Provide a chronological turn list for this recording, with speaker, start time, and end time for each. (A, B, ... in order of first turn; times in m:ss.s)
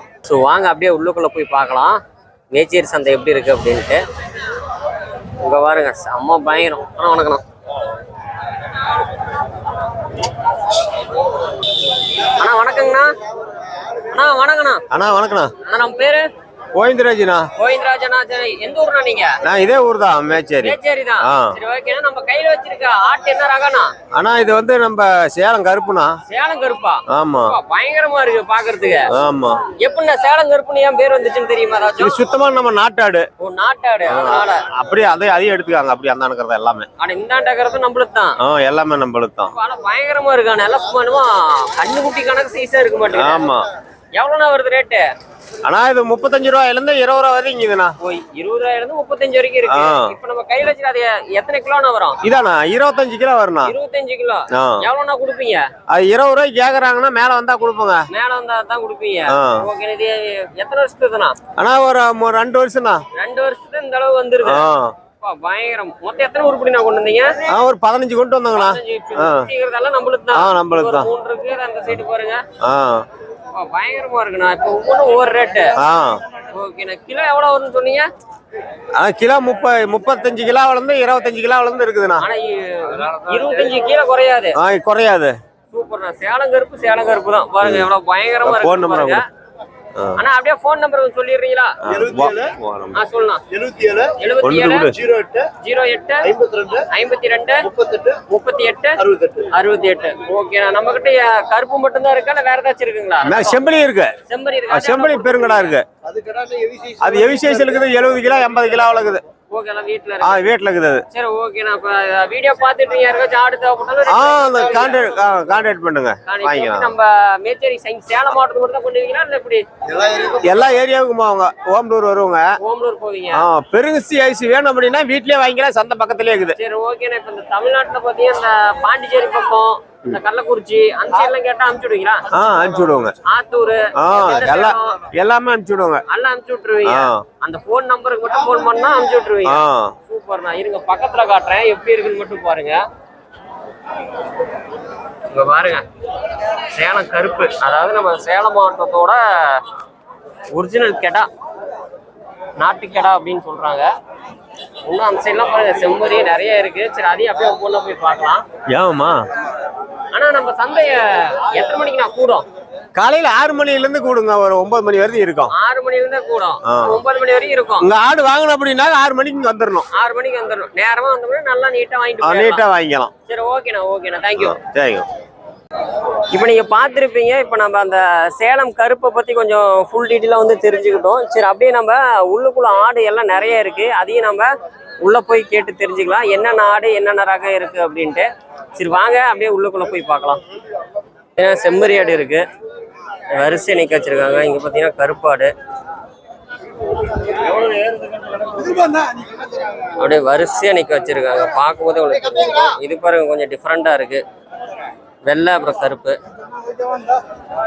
0:00.2-0:02.0 A
0:02.5-0:04.0 A
0:05.4-0:07.4 A
0:12.2-0:13.1 A
0:14.1-0:14.8 A
0:14.9-0:15.5 B
0:15.6-0:16.2 A
0:16.7-0:17.4 B
0:17.6-0:19.3 A
0:19.4-0:21.5 B
0:20.6-0:23.9 A
0:24.1-0:26.1 B
0:26.3-0:29.1 A
0:27.1-0:27.5 B
0:29.1-0:29.6 B
0:29.8-0:32.2 A
0:32.0-0:33.2 B
0:33.4-0:34.6 A
0:34.1-0:36.9 B
0:37.0-0:38.4 A
0:38.4-0:39.5 B
0:39.5-0:43.5 A
0:43.1-0:43.7 B
0:44.1-0:45.0 A
0:45.6-0:47.9 B
0:48.0-0:52.2 A
0:49.7-0:50.1 B
0:52.2-0:53.7 B
0:53.6-0:55.6 A
0:54.5-0:54.8 B
0:55.9-0:58.0 B
0:58.1-1:01.4 A
0:59.3-0:59.6 B
1:01.6-1:03.0 B
1:03.2-1:04.6 A
1:04.4-1:04.9 B
1:05.2-1:07.4 A
1:07.5-1:09.5 B
1:08.5-1:12.4 A
1:10.3-1:11.1 B
1:12.6-1:13.0 B
1:13.5-1:15.8 A
1:15.8-1:16.2 B
1:16.5-1:18.1 A
1:19.0-1:22.2 B
1:22.2-1:24.6 A
1:24.6-1:25.3 B
1:25.7-1:29.2 A
1:27.6-1:27.9 B
1:28.4-1:29.2 B
1:30.2-1:31.8 A
1:31.8-1:33.0 B
1:32.9-1:33.4 A
1:33.5-1:34.1 C
1:34.2-1:34.9 A
1:34.4-1:35.1 B
1:35.1-1:35.4 C
1:35.6-1:37.7 A
1:36.3-1:36.8 C
1:37.7-1:38.1 C
1:38.2-1:39.0 A
1:39.1-1:39.4 C
1:39.5-1:43.6 A
1:43.2-1:44.1 B
1:44.3-1:45.7 A
1:44.7-1:45.8 B
1:46.1-1:47.5 C
1:47.0-1:49.2 B
1:49.5-1:50.4 A
1:50.2-1:51.0 B
1:51.1-1:55.0 A
1:54.1-1:56.9 B
1:56.3-1:59.6 A
2:00.0-2:00.2 C
2:00.1-2:02.4 B
2:02.6-2:03.4 A
2:03.3-2:06.5 B
2:06.6-2:12.3 A
2:12.3-2:13.1 B
2:13.2-2:15.0 A
2:14.0-2:16.0 B
2:16.1-2:22.8 A
2:16.8-2:17.2 B
2:19.4-2:19.9 B
2:25.3-2:25.8 A
2:26.7-2:29.6 A
2:30.5-2:31.3 A
2:32.6-2:33.9 A
2:34.8-2:38.4 A
2:38.7-2:39.2 B
2:40.1-2:42.4 A
2:42.9-2:45.5 B
2:45.5-2:47.9 A
2:46.7-2:47.0 B
2:47.8-2:49.8 B
2:49.9-2:52.6 A
2:52.2-2:53.1 B
2:53.3-2:54.6 A
2:54.4-2:55.0 B
2:56.3-3:04.5 A
3:05.0-3:10.4 A
3:11.4-3:12.4 A
3:13.3-3:15.5 A
3:20.0-3:24.2 A
3:25.2-3:26.2 A